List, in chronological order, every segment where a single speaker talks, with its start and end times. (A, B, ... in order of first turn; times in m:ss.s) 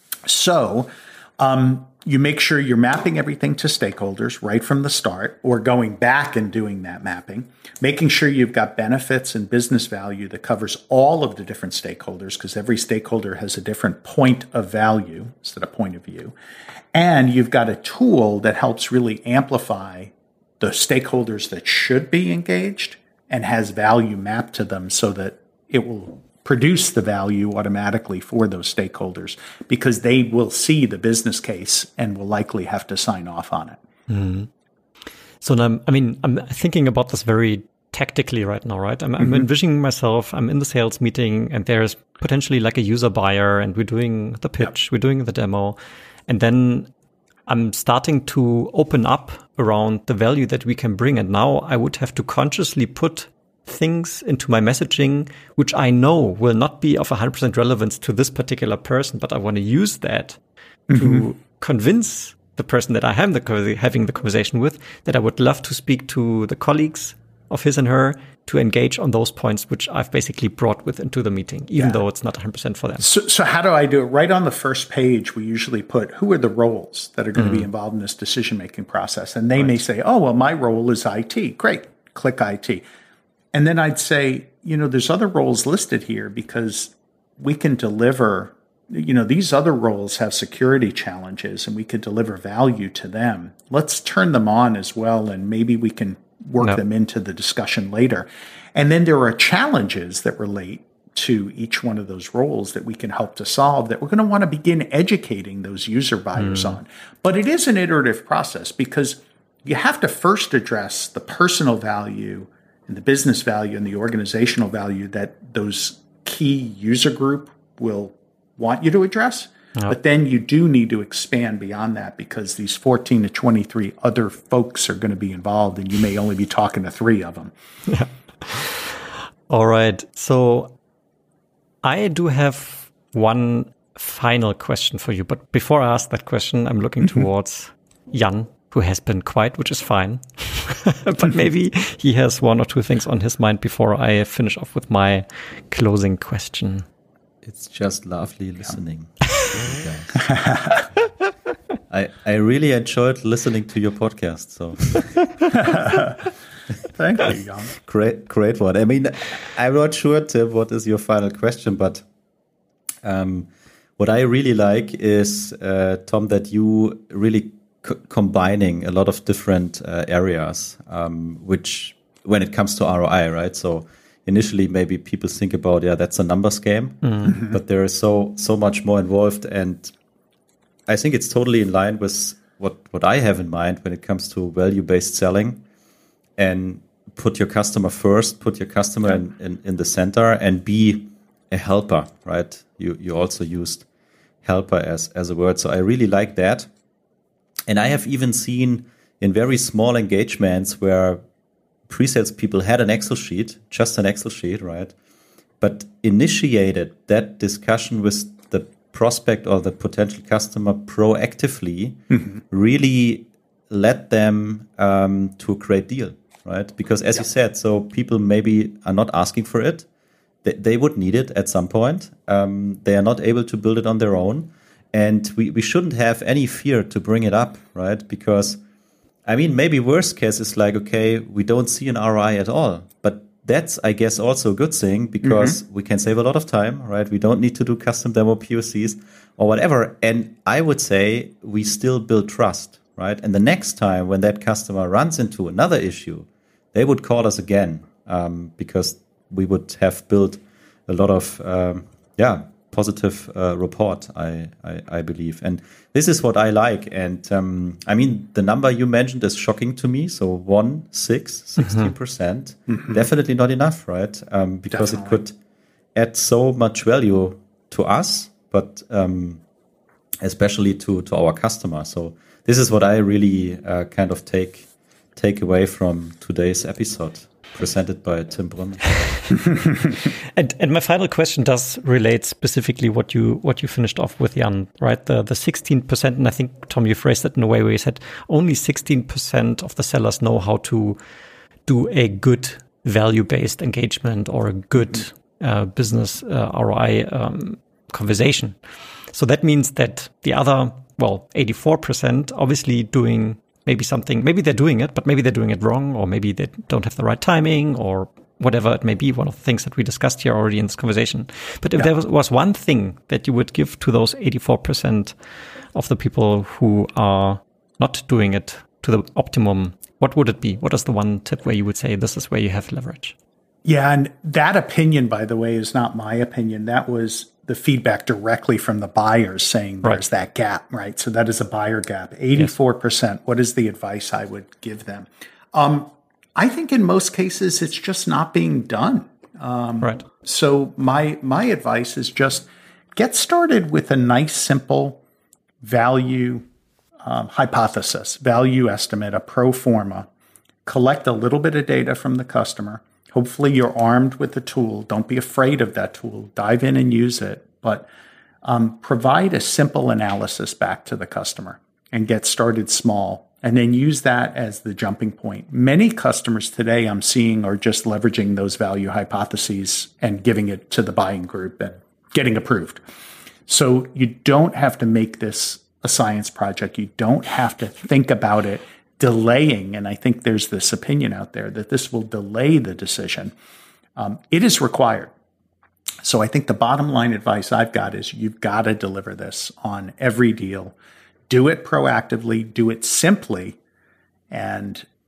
0:00.2-0:16.3 A
0:16.9-0:33.8 A
0:34.1-0:34.5 B
0:35.4-0:46.9 B
0:47.4-1:00.4 B
1:00.9-1:01.3 A
1:01.0-1:13.1 B
1:11.8-1:12.0 A
1:13.0-1:22.8 A
1:17.4-1:17.7 B
1:23.5-2:07.5 A
1:46.4-1:46.8 B
2:07.9-2:10.7 B
2:11.8-2:26.8 B
2:27.4-2:30.3 C
2:30.2-2:30.9 A
2:31.9-2:35.5 C
2:35.5-2:36.2 A
2:36.9-2:37.7 A
2:37.8-2:42.0 C
2:43.0-2:59.9 C
2:57.0-2:57.4 B
3:00.9-3:05.6 C
3:06.4-3:13.8 C
3:14.4-3:16.7 C
3:17.7-3:21.2 C
3:21.9-3:24.9 C
3:25.6-3:39.8 C
3:40.4-3:48.6 C
3:49.2-4:25.3 C
3:55.2-3:55.6 A
4:21.6-4:21.9 B
4:24.7-4:25.2 A
4:25.9-4:29.4 C
4:30.2-4:39.3 C
4:40.3-4:51.0 B
4:51.6-4:58.6 B
4:59.1-5:15.1 B
5:15.7-5:23.1 B
5:23.6-5:45.0 A
5:45.6-5:46.4 A
5:47.0-5:50.1 A
5:50.6-5:57.9 A
5:58.4-6:12.8 A
6:13.5-6:23.3 A
6:24.0-6:25.1 A
6:26.0-6:30.7 A
6:31.3-6:33.6 A
6:34.3-6:34.8 A